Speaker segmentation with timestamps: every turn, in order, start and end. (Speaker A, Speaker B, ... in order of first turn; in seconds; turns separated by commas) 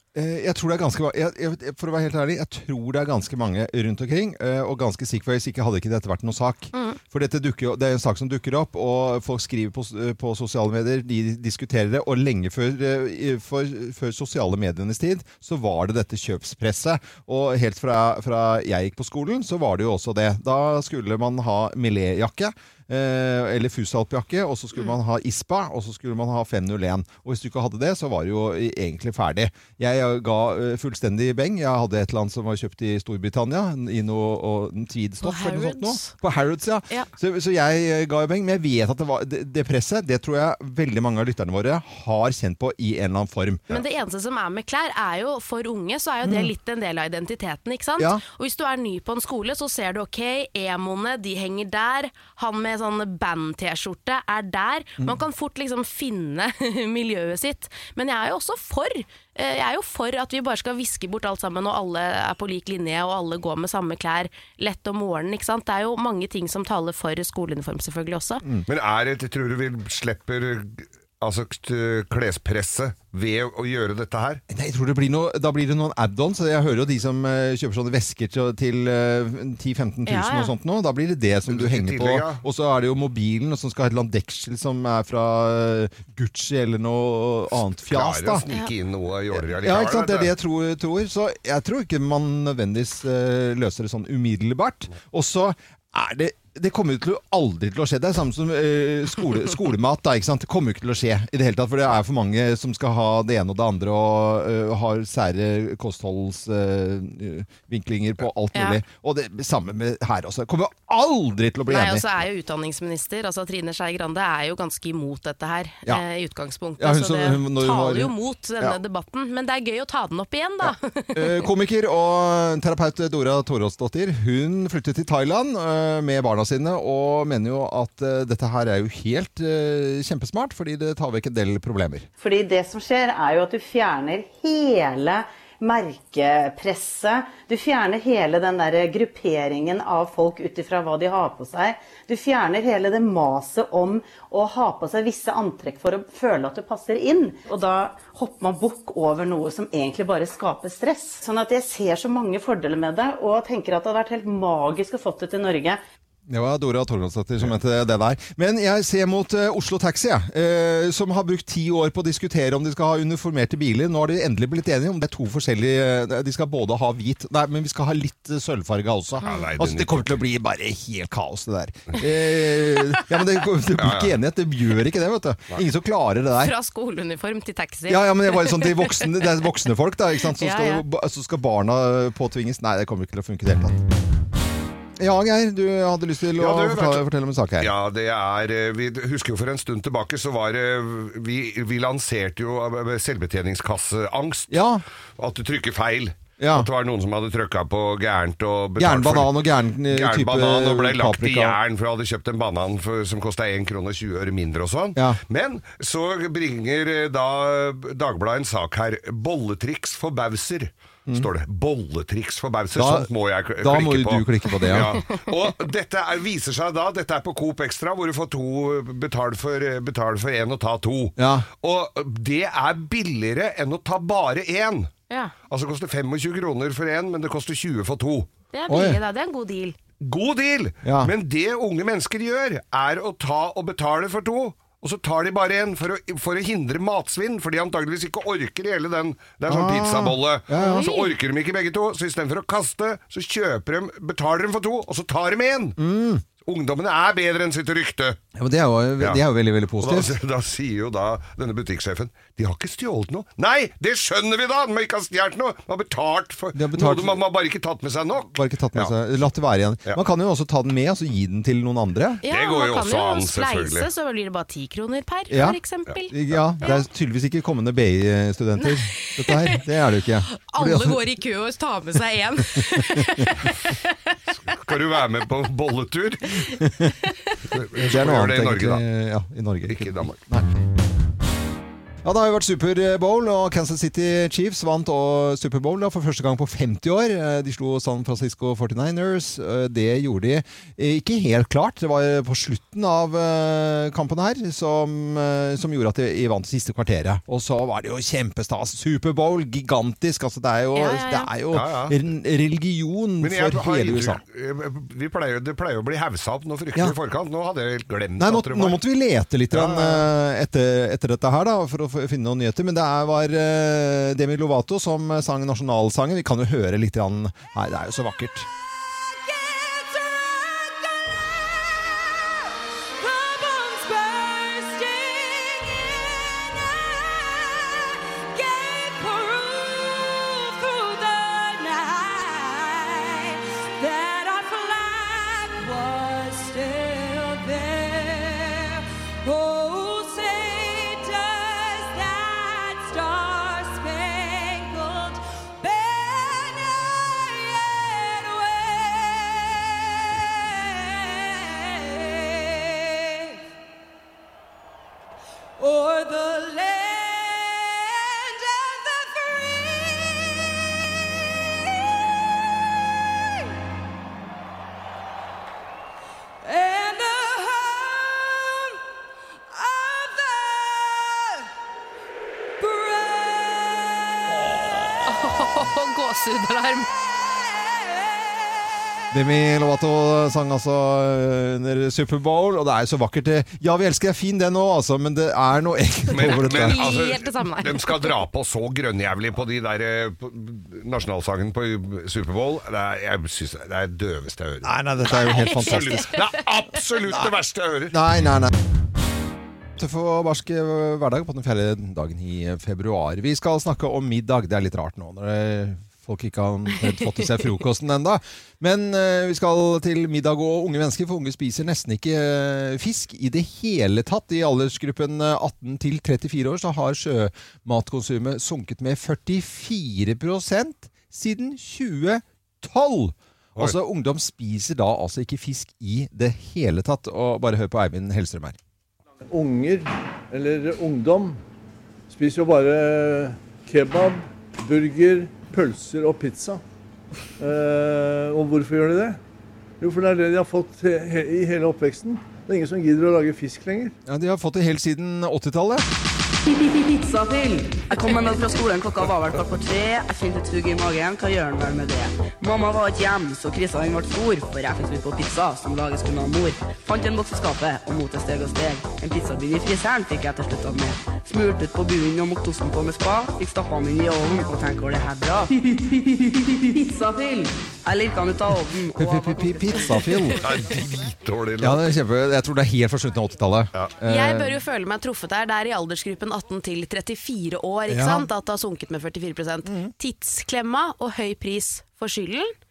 Speaker A: 0.1-43.8, Speaker B: 6.7-7.0, Speaker B: 35.2-36.1, Speaker B: 43.7-68.4, Speaker A: 46.2-46.5, Speaker C: 68.7-74.4, Speaker A: 74.5-88.5, Speaker B: 80.0-80.5, Speaker C: 81.5-82.4, Speaker C: 87.9-90.3, Speaker A: 89.4-112.1, Speaker B: 108.5-108.8, Speaker B: 111.7-121.5, Speaker A: 116.8-118.8, Speaker A: 120.6-132.1, Speaker D: 132.2-155.8, Speaker A: 156.3-176.5, Speaker C: 169.2-170.2, Speaker C: 173.8-174.1, Speaker B: 176.4-179.1, Speaker A: 177.9-183.8, Speaker B: 180.3-180.8, Speaker A: 185.0-187.7, Speaker C: 186.4-187.1, Speaker C: 187.6-194.6, Speaker A: 194.5-194.8, Speaker C: 195.2-199.3, Speaker A: 196.4-196.7, Speaker A: 198.8-201.6, Speaker C: 199.9-224.9, Speaker A: 212.8-214.9, Speaker A: 221.2-221.5, Speaker C: 225.5-228.3, Speaker B: 228.5-229.8, Speaker A: 228.7-229.0, Speaker C: 230.0-245.8, Speaker A: 230.8-231.1, Speaker A: 239.5-240.9, Speaker B: 240.6-241.1, Speaker A: 245.8-246.2, Speaker C: 246.4-248.2, Speaker A: 248.3-250.1, Speaker C: 249.8-258.9, Speaker A: 256.5-257.2, Speaker A: 258.3-262.2, Speaker B: 262.2-266.8, Speaker C: 262.2-263.9, Speaker A: 265.3-265.6, Speaker A: 266.1-271.0, Speaker B: 268.6-269.6, Speaker B: 270.4-273.9, Speaker A: 272.9-273.3, Speaker C: 274.5-276.4, Speaker A: 276.6-276.9, Speaker C: 277.5-278.8, Speaker A: 277.8-280.5, Speaker C: 279.7-280.2, Speaker A: 282.0-304.2, Speaker B: 300.8-301.3, Speaker C: 301.5-301.9, Speaker C: 303.2-308.8, Speaker A: 308.2-318.5, Speaker C: 309.5-310.1, Speaker E: 318.8-353.5, Speaker E: 355.6-363.6, Speaker E: 366.4-368.8, Speaker E: 369.5-371.5, Speaker E: 372.6-375.1, Speaker B: 375.1-376.9, Speaker E: 377.1-378.7, Speaker A: 379.1-386.9, Speaker C: 386.1-397.9, Speaker B: 386.1-388.1, Speaker A: 394.6-396.1, Speaker B: 395.1-396.3, Speaker A: 397.9-398.5, Speaker A: 399.8-428.6, Speaker F: 429.3-431.4, Speaker F: 432.1-436.6, Speaker F: 437.4-439.2, Speaker F: 439.8-443.9, Speaker A: 444.1-445.9, Speaker G: 446.4-470.3, Speaker A: 468.9-470.4, Speaker C: 470.4-471.9, Speaker A: 471.6-474.5, Speaker B: 474.1-482.5, Speaker A: 477.9-478.2, Speaker A: 479.6-479.9